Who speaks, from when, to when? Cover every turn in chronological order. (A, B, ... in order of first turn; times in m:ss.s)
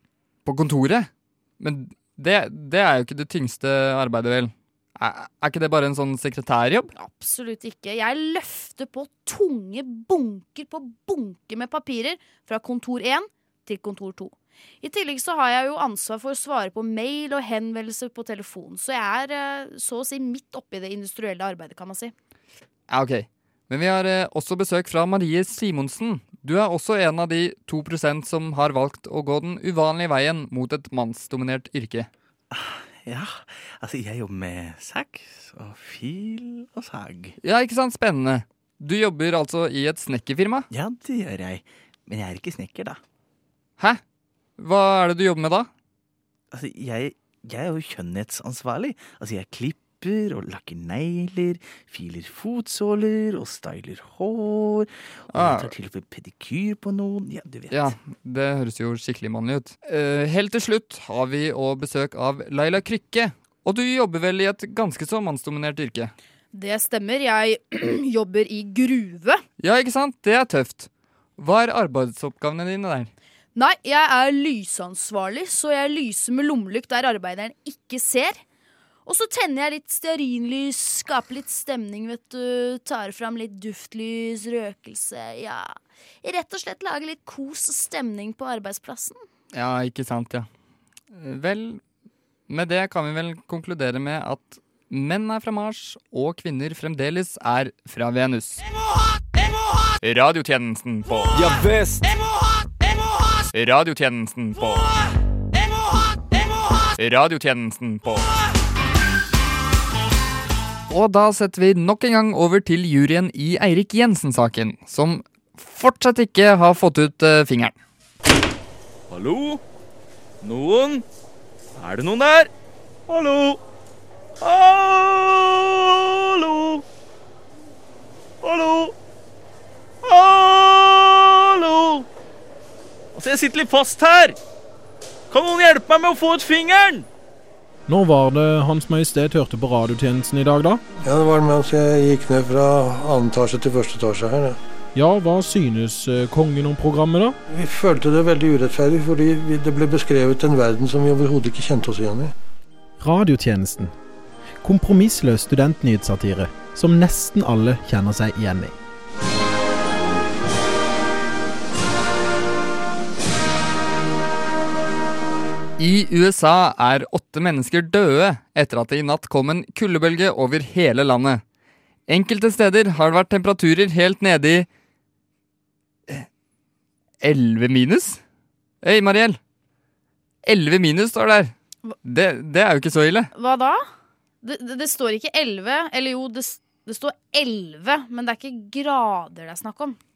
0:00.4-0:06.9 A
0:07.0-0:22.1 B
0:22.9-0:32.1 A
0:32.5-0:37.4 C
0:37.4-0:40.7 A
0:40.7-0:43.0 C
0:44.6-0:45.7 A
0:46.5-0:58.0 C
0:55.3-0:55.7 A
0:57.7-1:06.1 A
1:06.5-1:09.4 B
1:09.6-1:13.1 A
1:13.6-1:18.4 B
1:19.0-1:29.2 B
1:29.5-1:30.5 A
1:31.1-1:31.8 A
1:32.5-1:38.6 A
1:40.0-1:41.5 A
1:41.4-1:42.0 C
1:43.5-1:44.9 A
1:47.0-1:48.3 A
1:50.9-1:57.8 A
1:59.1-1:59.6 C
2:00.4-2:01.0 C
2:01.8-2:02.5 C
2:03.1-2:03.6 C
2:04.4-2:06.8 C
2:08.4-2:09.0 C
2:10.0-2:12.1 C
2:13.1-2:14.4 C
2:15.3-2:17.1 C
2:17.9-2:20.8 D
2:21.0-2:24.6 E
2:25.0-2:27.4 D
2:27.5-2:32.3 E
2:33.0-2:33.9 D
2:34.6-2:38.7 D
2:45.8-2:51.4 A
2:52.1-2:54.7 A
2:57.2-2:58.2 A
2:58.8-2:59.4 A
3:00.4-3:01.5 A
3:02.0-3:03.3 A
3:03.4-3:03.8 B
3:04.4-3:10.0 B